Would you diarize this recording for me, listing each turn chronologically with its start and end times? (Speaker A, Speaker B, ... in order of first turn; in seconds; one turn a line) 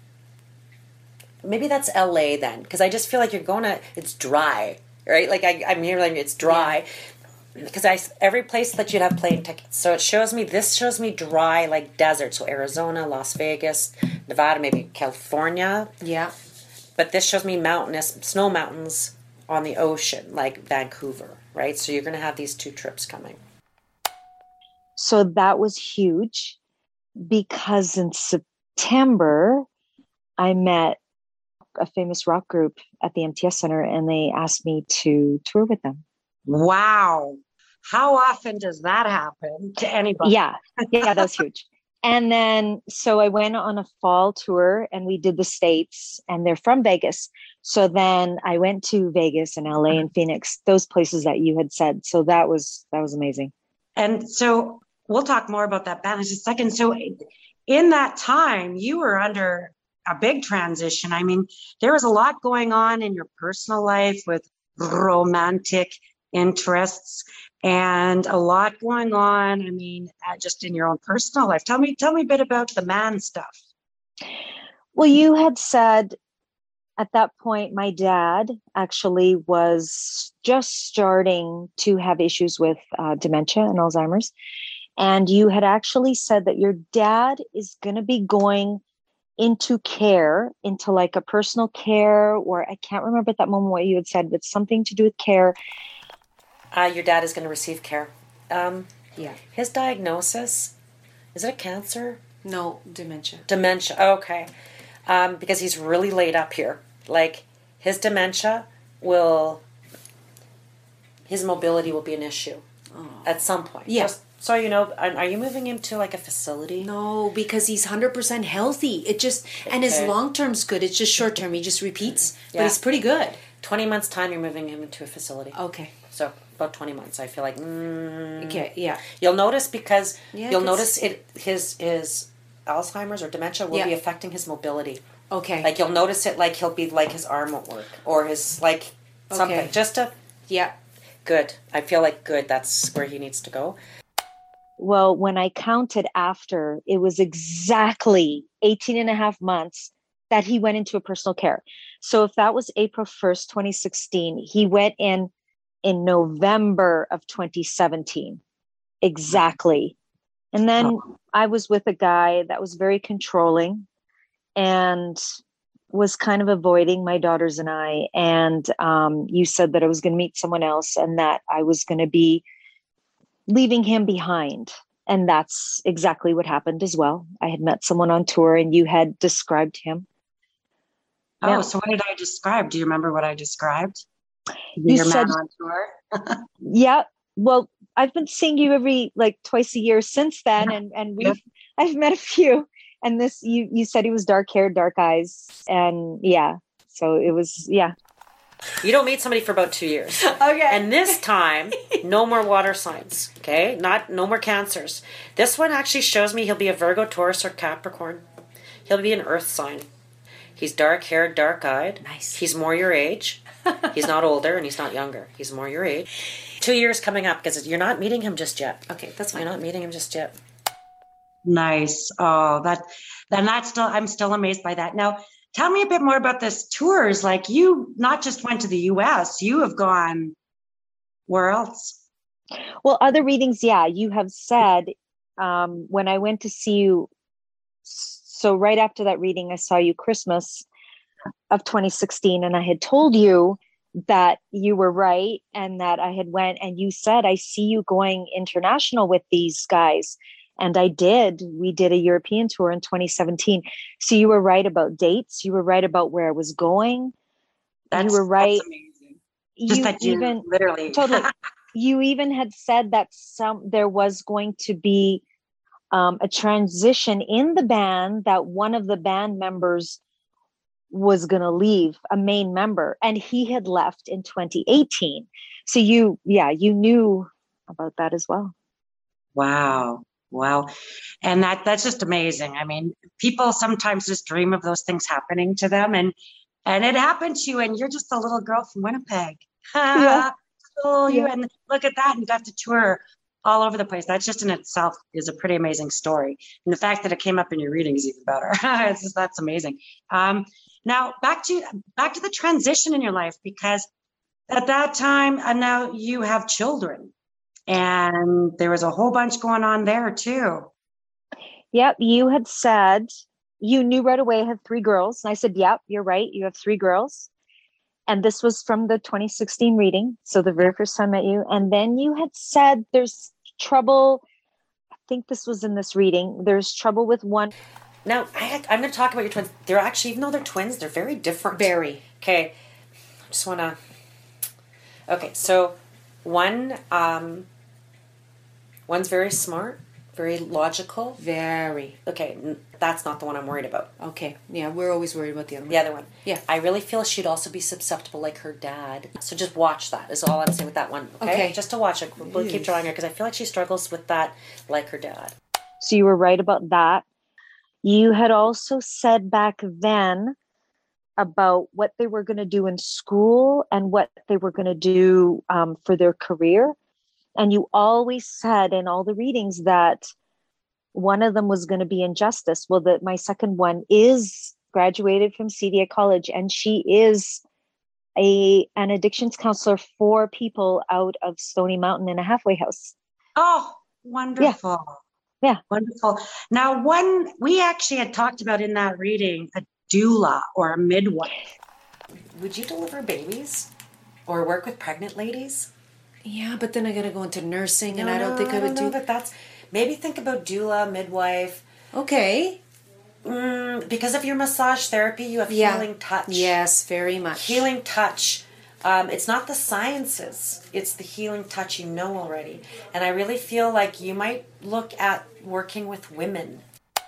Speaker A: 1.4-6.9
Speaker B: 6.4-6.8
Speaker A: 7.5-15.9
Speaker B: 16.0-16.3
Speaker A: 17.0-23.4
Speaker C: 25.0-26.6
Speaker C: 27.2-29.6
Speaker C: 30.4-31.0
Speaker C: 31.8-36.0
Speaker D: 36.5-40.3
Speaker C: 40.2-53.5
Speaker D: 41.0-41.3
Speaker D: 54.0-73.6
Speaker C: 74.9-76.2
Speaker C: 77.0-84.3
Speaker C: 85.0-88.8
Speaker C: 89.4-95.5
Speaker A: 96.7-98.9
Speaker A: 99.5-100.7
Speaker A: 101.3-102.2
Speaker B: 102.4-103.4
Speaker A: 103.5-104.5
Speaker A: 105.1-109.6
Speaker A: 111.3-112.6
Speaker B: 112.9-114.1
Speaker A: 113.2-116.9
Speaker B: 116.8-123.4
Speaker A: 119.7-120.1
Speaker A: 122.0-122.8
Speaker A: 123.6-125.6
Speaker B: 125.5-125.9
Speaker A: 126.1-135.0
Speaker B: 128.4-129.0
Speaker B: 130.3-130.9
Speaker B: 135.3-135.7
Speaker A: 135.6-140.1
Speaker B: 139.3-139.7
Speaker B: 140.5-140.7
Speaker A: 141.2-143.8
Speaker C: 144.8-155.3
Speaker C: 155.8-158.4
Speaker C: 159.0-159.9
Speaker C: 160.5-163.8
Speaker C: 164.6-165.2
Speaker C: 165.9-172.4
Speaker C: 173.5-180.1
Speaker D: 181.4-184.0
Speaker D: 184.8-186.4
Speaker C: 184.8-185.4
Speaker C: 186.6-197.9
Speaker A: 198.8-208.2
Speaker B: 200.2-201.1
Speaker A: 208.9-209.9
Speaker A: 210.6-220.3
Speaker B: 212.0-212.4
Speaker B: 218.9-219.5
Speaker D: 221.4-230.3
Speaker D: 231.3-232.0
Speaker C: 232.8-237.1
Speaker C: 237.8-240.7
Speaker C: 241.5-257.1
Speaker D: 257.9-261.3
Speaker C: 257.9-258.6
Speaker C: 259.6-265.2
Speaker C: 265.9-270.0
Speaker C: 270.9-278.5
Speaker D: 279.3-280.7
Speaker D: 281.2-286.1
Speaker D: 286.6-303.9
Speaker C: 289.9-290.3
Speaker D: 304.5-307.1
Speaker D: 307.7-310.7
Speaker C: 311.7-317.3
Speaker C: 318.1-324.2
Speaker C: 325.1-327.5
Speaker A: 328.0-332.5
Speaker B: 331.5-332.0
Speaker A: 333.3-333.8
Speaker A: 335.1-337.5
Speaker A: 338.9-341.2
Speaker B: 341.2-342.0
Speaker A: 342.1-343.9
Speaker B: 344.0-346.4
Speaker A: 345.7-355.3
Speaker B: 351.2-351.6
Speaker B: 352.2-352.8
Speaker C: 355.8-357.0
Speaker C: 357.8-360.4
Speaker C: 361.2-366.8
Speaker C: 367.4-370.1
Speaker C: 370.9-377.4
Speaker C: 378.1-382.9
Speaker D: 383.4-385.0
Speaker D: 385.7-391.3
Speaker A: 392.3-393.7
Speaker A: 394.3-395.7
Speaker B: 396.2-398.9
Speaker A: 397.9-401.6
Speaker B: 401.9-402.6
Speaker A: 403.2-406.6
Speaker B: 405.5-407.7
Speaker A: 407.3-416.6